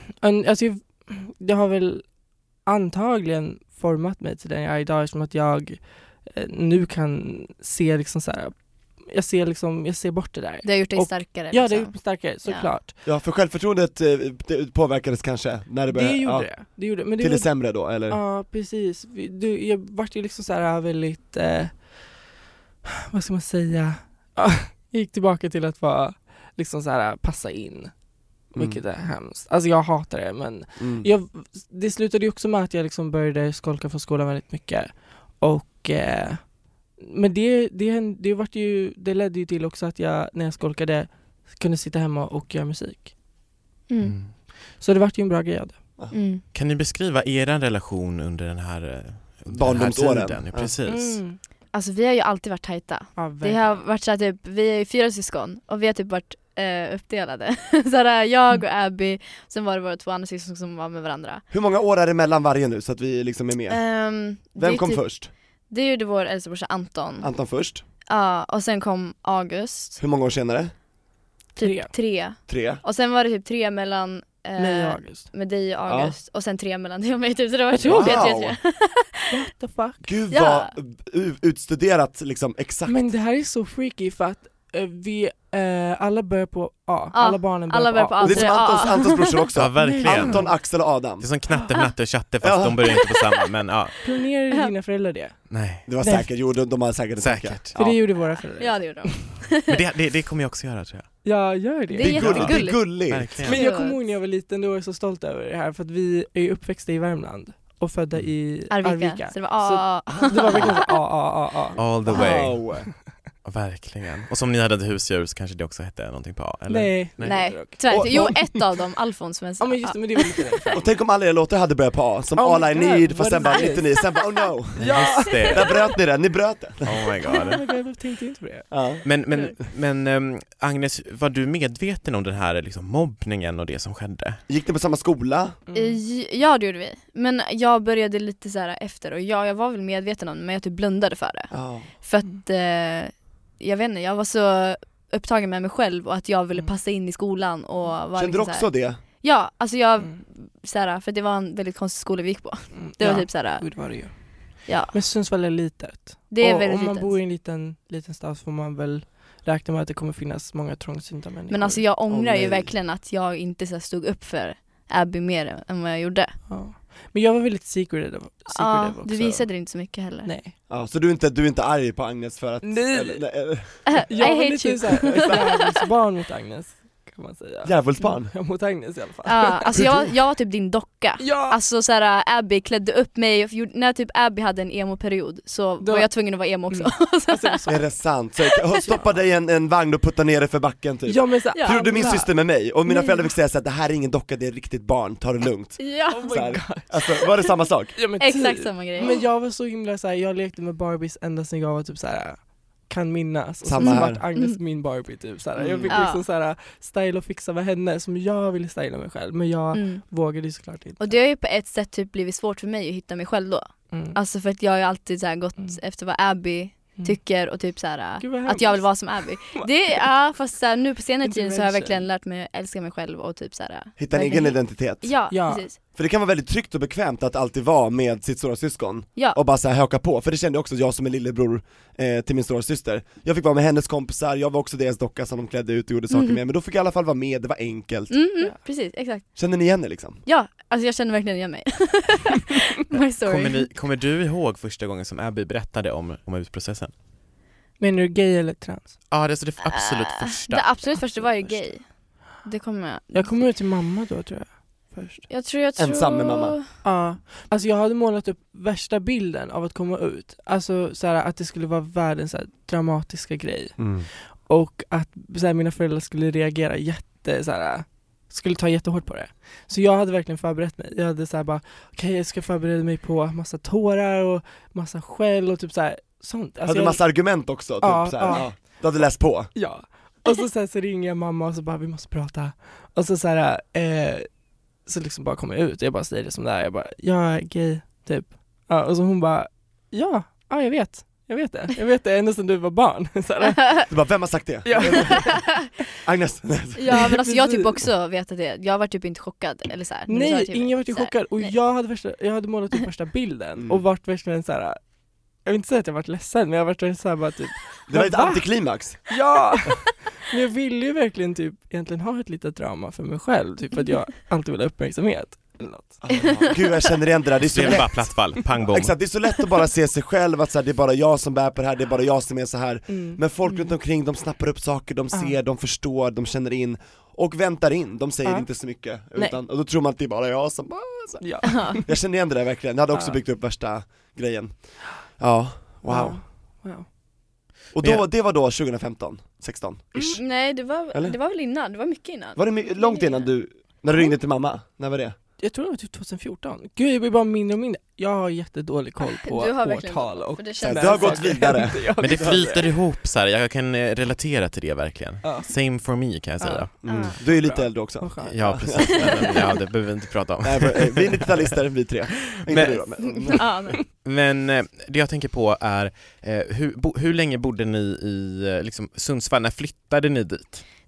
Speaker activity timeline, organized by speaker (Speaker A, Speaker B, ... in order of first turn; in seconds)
Speaker A: 0.2-2.1, 2.6-12.9, 15.9-22.1, 23.1-27.9, 28.5-43.1, 44.8-45.8, 50.9-51.4, 53.1-53.8, 71.6-71.9, 74.6-75.3, 77.7-78.3, 79.3-80.1, 82.9-88.6, 89.8-90.5, 94.0-96.3, 97.8-99.1, 101.2-102.5, 103.4-112.2, 116.7-118.3, 119.6-120.8, 122.3-124.0, 124.8-125.7, 127.3-128.7, 135.7-136.0, 152.7-161.8, 166.5-169.5, 170.2-170.5, 172.6-173.3, 174.1-179.7, 181.2-181.6, 185.8-186.2, 186.7-187.9, 188.8-189.1, 191.1-192.3, 196.1-197.3, 197.9-211.2, 213.9-214.2, 218.2-219.7, 221.2-222.1, 225.3-225.7, 247.8-248.9, 253.1-255.3, 256.8-278.8, 279.5-284.3, 284.8-293.9, 294.6-295.5, 296.9-297.8, 300.1-304.8, 305.4-308.5, 309.1-316.1, 322.9-323.2, 325.1-325.4, 328.2-328.5, 331.2-331.8, 332.9-333.2, 335.8-336.9, 345.4-352.7, 355.2-355.5, 356.4-359.3
Speaker B: 10.6-12.7, 43.9-44.1, 46.1-46.4, 51.7-61.4, 63.7-65.1, 65.7-67.3, 68.0-70.0, 71.6-79.3, 80.3-80.7, 87.1-89.4, 97.8-99.8, 101.9-104.0, 108.7-110.8, 117.2-120.8, 135.7-154.1, 154.7-154.9, 156.3-157.2, 161.5-166.4, 168.5-170.3, 173.9-175.5, 179.2-187.6, 191.5-192.3, 192.9-193.2, 195.8-196.6, 198.2-199.2, 203.8-204.6, 205.9-206.2, 209.7-210.0, 211.0-225.8, 236.1-236.4, 238.1-239.2, 240.2-243.7, 249.7-253.5, 255.3-256.6, 293.6-293.9, 294.8-295.5, 296.8-301.5, 316.1-316.5, 323.4-323.7, 331.4-331.8, 340.1-343.3, 349.2-351.6, 356.9-357.2, 359.0-359.3, 363.0-363.8
Speaker C: 13.0-18.2, 28.5-28.8, 30.8-31.1, 49.5-50.7, 61.5-63.8, 64.5-65.3, 67.2-67.8, 70.0-70.7, 72.5-72.8, 75.8-76.1, 77.8-78.6, 80.0-83.1, 88.2-91.3, 92.4-93.0, 95.9-98.0, 102.0-103.4, 110.1-110.7, 112.0-112.9, 117.8-118.6, 120.7-127.1, 128.7-129.0, 134.5-135.6, 141.5-141.9, 148.1-149.0, 162.1-162.7, 170.7-174.2, 175.1-175.4, 177.6-178.3, 179.7-180.1, 187.7-198.0, 203.6-204.2, 205.6-206.0, 224.0-225.2, 225.9-238.2, 239.3-240.2, 255.8-256.6, 263.8-264.1, 276.6-279.5, 293.9-297.1, 303.6-303.8, 307.9-309.2, 316.0-336.2, 337.7-340.2, 342.4-345.1, 350.6-352.6, 356.8-359.1, 360.4-363.5
Speaker D: 44.0-44.3, 46.5-51.2, 89.5-94.0, 95.5-95.8, 97.2-97.8, 99.7-101.1, 102.2-103.6, 111.8-112.7, 113.4-117.6, 124.8-125.7, 126.8-127.6, 129.0-134.4, 243.2-246.9, 249.1-251.3, 317.4-318.9, 352.0-356.7, 358.2-361.5, 362.5-362.8, 363.8-370.6